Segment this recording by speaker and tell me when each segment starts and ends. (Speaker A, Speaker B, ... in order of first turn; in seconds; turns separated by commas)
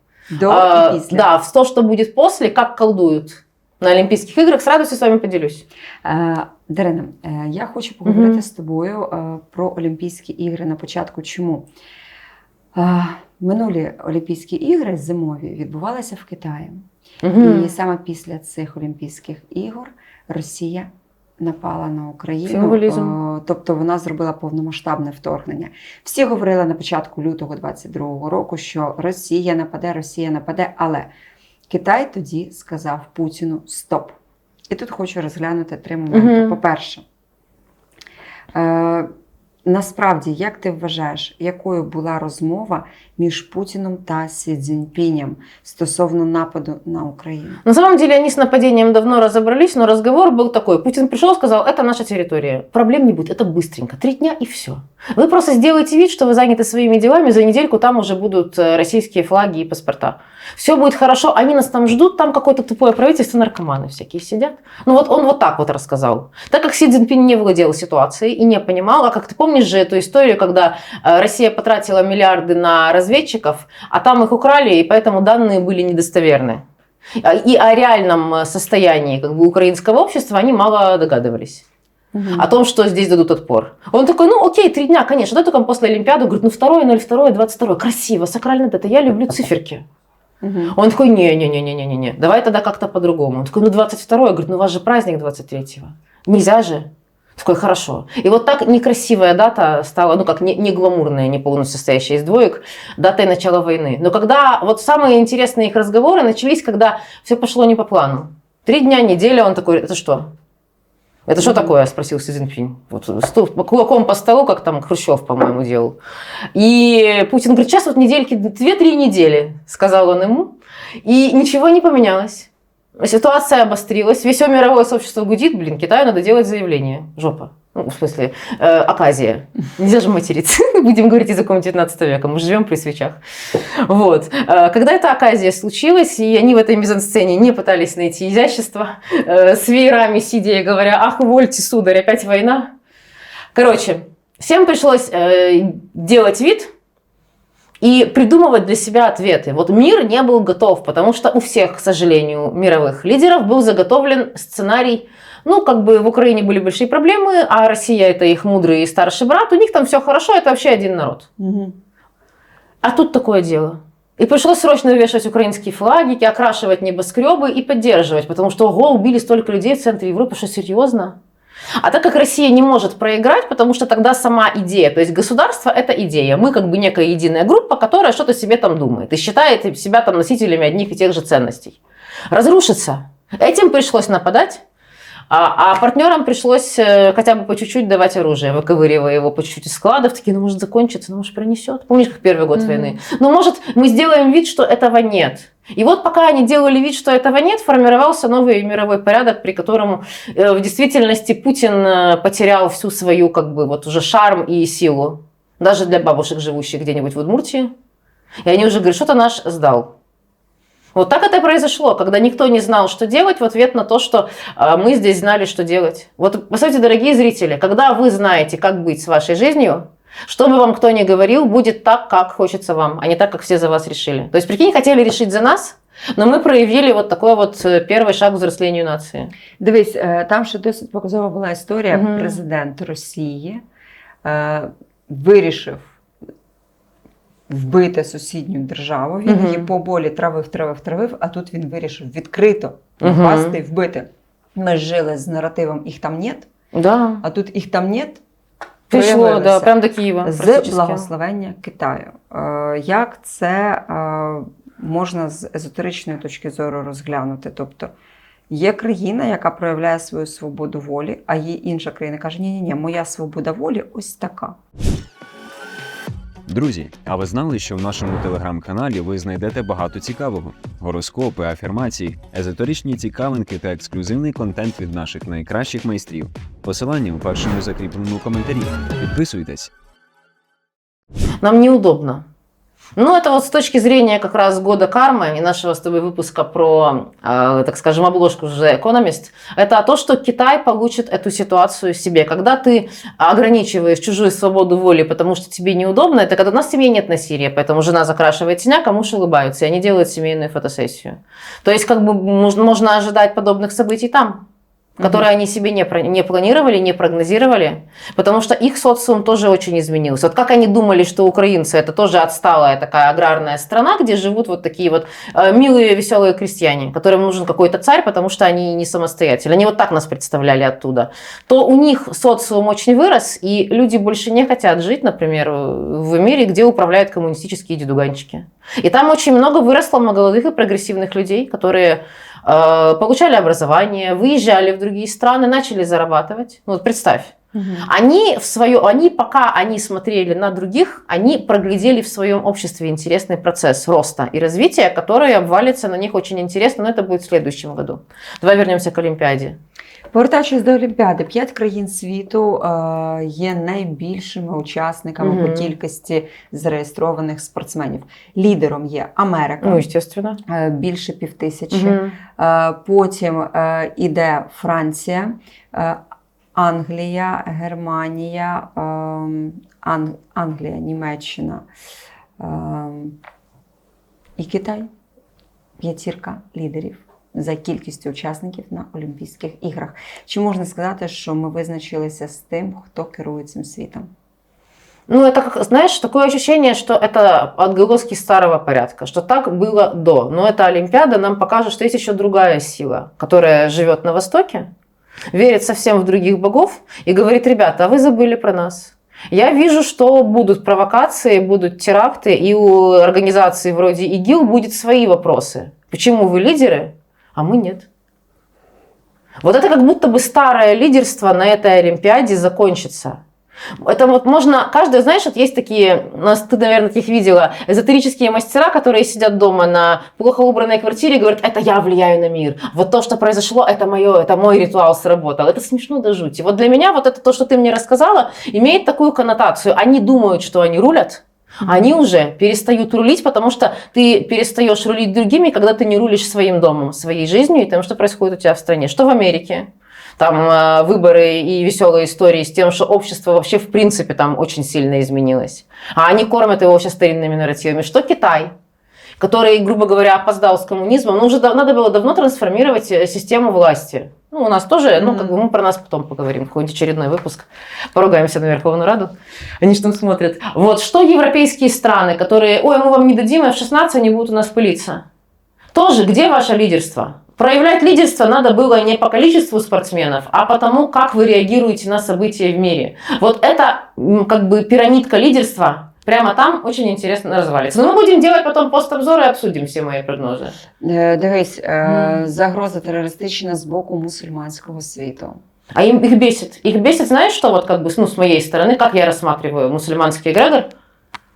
Speaker A: 0.3-1.2, Speaker B: 0.5-5.6, Speaker A: 6.0-11.7, Speaker B: 8.1-8.4, Speaker A: 12.7-16.9, Speaker B: 17.2-17.7, Speaker A: 17.4-31.1, Speaker B: 22.5-23.1, Speaker A: 31.7-34.2, Speaker A: 34.7-37.0, Speaker B: 36.1-36.6, Speaker A: 38.5-39.1, Speaker A: 39.6-47.6, Speaker B: 47.6-76.6, Speaker B: 77.2-81.6, Speaker A: 82.1-82.5, Speaker B: 82.3-89.8, Speaker A: 90.4-90.7, Speaker B: 90.7-110.3, Speaker B: 111.3-116.0, Speaker A: 111.4-111.7, Speaker B: 116.5-133.2, Speaker B: 133.8-142.7, Speaker B: 143.5-146.7, Speaker B: 147.8-161.3, Speaker A: 161.4-161.8, Speaker B: 162.8-171.2, Speaker B: 171.8-181.8, Speaker B: 182.3-184.6, Speaker B: 185.3-207.7, Speaker A: 192.5-193.0, Speaker B: 208.4-209.9, Speaker B: 210.9-229.3, Speaker A: 229.6-233.6, Speaker B: 231.9-232.4, Speaker A: 234.2-235.9, Speaker A: 237.5-246.5, Speaker B: 239.2-239.7, Speaker B: 243.0-243.6, Speaker B: 246.7-247.2, Speaker A: 247.2-248.2, Speaker B: 248.9-251.1, Speaker A: 248.9-257.9, Speaker A: 258.5-264.6, Speaker C: 266.5-279.7, Speaker B: 281.4-282.2, Speaker B: 283.0-304.4, Speaker A: 305.0-305.2, Speaker B: 305.0-349.6, Speaker A: 337.5-337.9, Speaker A: 350.1-359.9, Speaker B: 355.2-355.7, Speaker B: 359.6-360.4, Speaker A: 360.4-366.0, Speaker B: 361.7-362.2, Speaker A: 366.5-371.7, Speaker A: 372.4-373.2, Speaker A: 374.4-374.9, Speaker A: 375.8-384.1, Speaker B: 385.1-394.7, Speaker B: 395.3-407.9, Speaker B: 409.4-413.2, Speaker B: 413.8-448.5, Speaker A: 431.6-431.9, Speaker B: 449.2-465.0, Speaker A: 455.0-455.4, Speaker B: 465.7-480.6, Speaker A: 480.8-485.4, Speaker B: 481.8-482.2, Speaker B: 485.7-490.7